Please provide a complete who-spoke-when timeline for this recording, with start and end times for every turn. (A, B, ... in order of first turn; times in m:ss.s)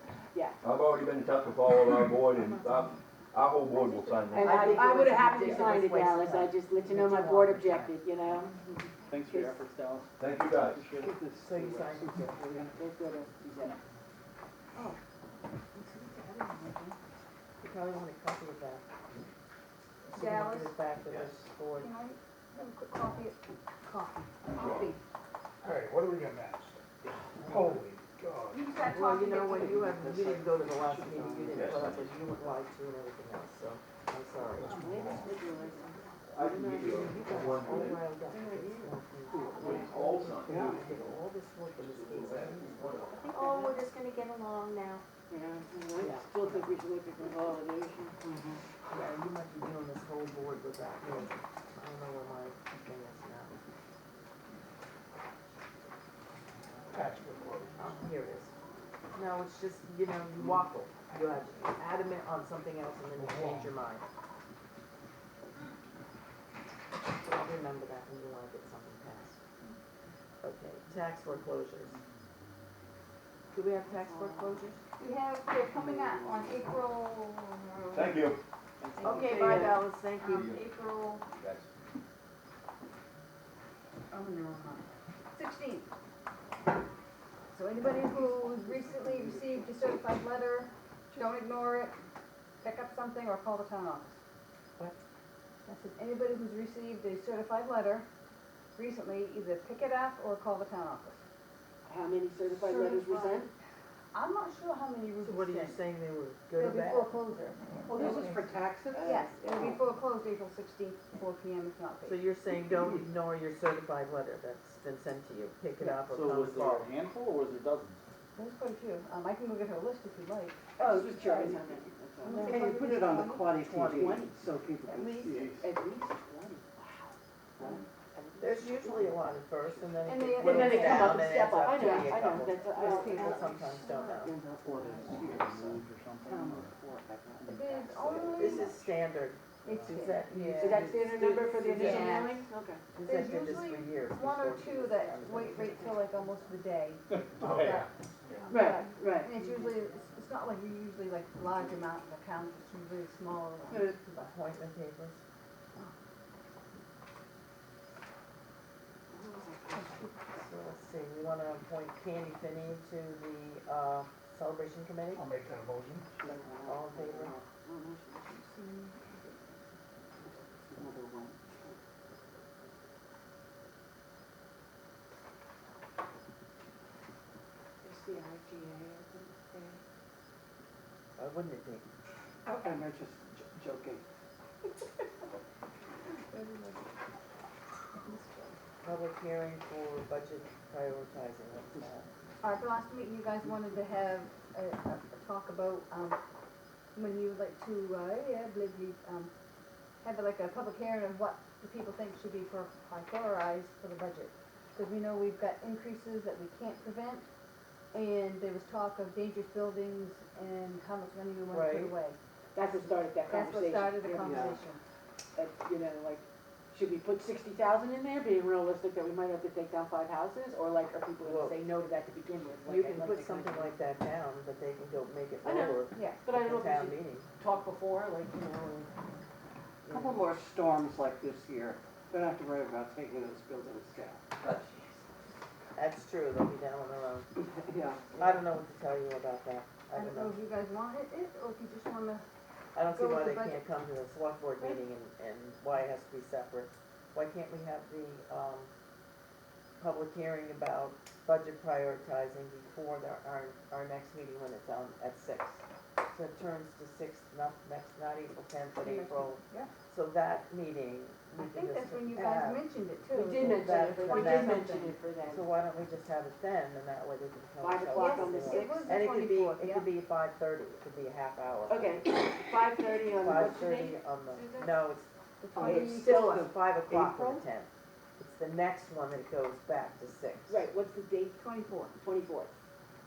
0:00.3-0:00.6 A
0:00.6-0:04.8 B
0:04.2-0:09.6 A
0:04.4-0:07.9 C
0:09.1-0:11.2 D
0:10.2-0:10.8 B
0:11.0-0:12.8 E
0:11.4-0:12.1 C
0:12.7-0:13.8 A
0:15.6-0:17.0 F
0:17.6-0:18.8 C
0:20.1-0:20.8 F
0:20.1-0:21.9 C
0:21.7-0:25.0 F
0:24.6-0:24.9 B
0:25.6-0:26.8 G
0:27.4-0:27.8 C
0:27.5-0:28.6 G
0:28.5-0:29.9 F
0:28.8-0:34.8 C
0:29.5-0:31.9 E
0:31.5-0:32.2 B
0:34.6-0:37.2 A
0:34.7-0:35.2 G
0:34.7-0:35.0 E
0:36.3-0:38.0 B
0:36.8-0:42.9 C
0:38.3-0:40.0 A
0:39.3-0:39.7 E
0:39.6-0:41.2 B
0:40.4-0:40.8 E
0:41.8-0:43.2 B
0:43.1-0:43.8 A
0:45.3-0:48.4 A
0:46.0-0:46.7 C
0:48.3-0:48.6 E
0:48.9-0:53.6 C
0:56.9-0:57.8 G
0:57.8-0:58.5 C
0:59.1-1:04.0 C
1:03.2-1:03.5 G
1:07.2-1:09.4 C
1:10.4-1:12.0 C
1:13.5-1:14.8 C
1:14.1-1:14.5 A
1:15.0-1:18.3 F
1:17.9-1:18.4 B
1:18.8-1:19.7 D
1:19.0-1:21.2 F
1:19.0-1:20.5 C
1:19.4-1:19.8 A
1:20.3-1:20.6 B
1:21.4-1:21.7 B
1:24.1-1:24.8 F
1:25.3-1:25.9 F
1:27.5-1:32.0 F
1:28.7-1:29.6 D
1:32.6-1:34.2 F
1:35.6-1:38.0 F
1:38.8-1:41.2 F
1:41.8-1:43.5 A
1:42.5-1:43.5 F
1:44.1-1:45.8 F
1:45.2-1:47.1 C
1:46.5-1:48.5 F
1:47.9-1:49.2 E
1:48.9-1:49.8 A
1:49.0-1:52.3 F
1:49.2-1:49.7 C
1:52.0-1:56.9 C
1:55.8-1:58.0 D
1:58.3-2:01.7 F
2:00.8-2:02.6 A
2:02.2-2:03.5 F
2:02.3-2:02.7 C
2:02.4-2:05.6 E
2:03.6-2:04.2 C
2:03.9-2:04.4 A
2:04.8-2:05.2 F
2:04.9-2:05.4 C
2:05.3-2:05.6 B
2:05.6-2:07.2 A
2:07.7-2:13.8 A
2:08.4-2:14.4 C
2:10.0-2:14.1 F
2:14.2-2:17.4 E
2:14.6-2:16.7 D
2:17.4-2:18.9 D
2:17.4-2:18.8 F
2:18.3-2:22.2 C
2:19.6-2:20.9 F
2:20.6-2:22.8 A
2:21.6-2:22.4 F
2:22.9-2:26.1 C
2:23.0-2:27.9 F
2:27.1-2:27.8 D
2:27.4-2:27.9 G
2:28.4-2:34.3 F
2:28.5-2:29.4 A
2:33.7-2:34.0 A
2:34.2-2:35.2 C
2:39.1-2:40.0 A
2:39.7-2:40.2 F
2:40.3-2:45.2 C
2:45.1-2:46.1 G
2:46.2-2:46.4 E
2:46.2-2:48.5 A
2:46.6-2:47.4 C
2:48.4-2:49.4 F
2:50.6-2:51.7 E
2:57.8-2:59.8 A
3:01.2-3:01.8 C
3:02.4-3:04.0 E
3:08.0-3:08.5 F
3:08.8-3:12.1 C
3:12.4-3:16.2 F
3:16.9-3:19.3 F
3:20.0-3:27.3 F
3:27.9-3:32.2 F
3:31.5-3:31.9 C
3:32.5-3:34.6 A
3:33.2-3:34.8 F
3:34.2-3:34.6 E
3:35.4-3:43.7 A
3:41.2-3:41.6 C
3:42.6-3:47.3 C
3:45.4-3:48.9 A
3:45.9-3:46.2 F
3:49.8-3:50.2 C
3:49.9-3:54.6 E
3:54.4-3:55.0 A
3:55.7-3:57.3 C
3:57.4-3:58.2 E
3:58.2-4:00.4 C
3:59.9-4:02.2 F
4:02.7-4:08.7 C
4:02.8-4:03.7 F
4:09.8-4:22.6 C
4:18.8-4:19.7 F
4:21.4-4:25.0 F
4:23.1-4:25.4 A
4:23.5-4:24.6 C
4:25.2-4:32.2 C
4:27.6-4:29.0 A
4:27.9-4:29.9 F
4:31.7-4:34.0 A
4:33.2-4:40.6 C
4:34.3-4:34.7 F
4:35.4-4:37.4 F
4:35.6-4:36.5 E
4:35.6-4:35.9 A
4:40.5-4:41.4 A
4:41.4-4:42.0 F
4:42.0-4:42.5 A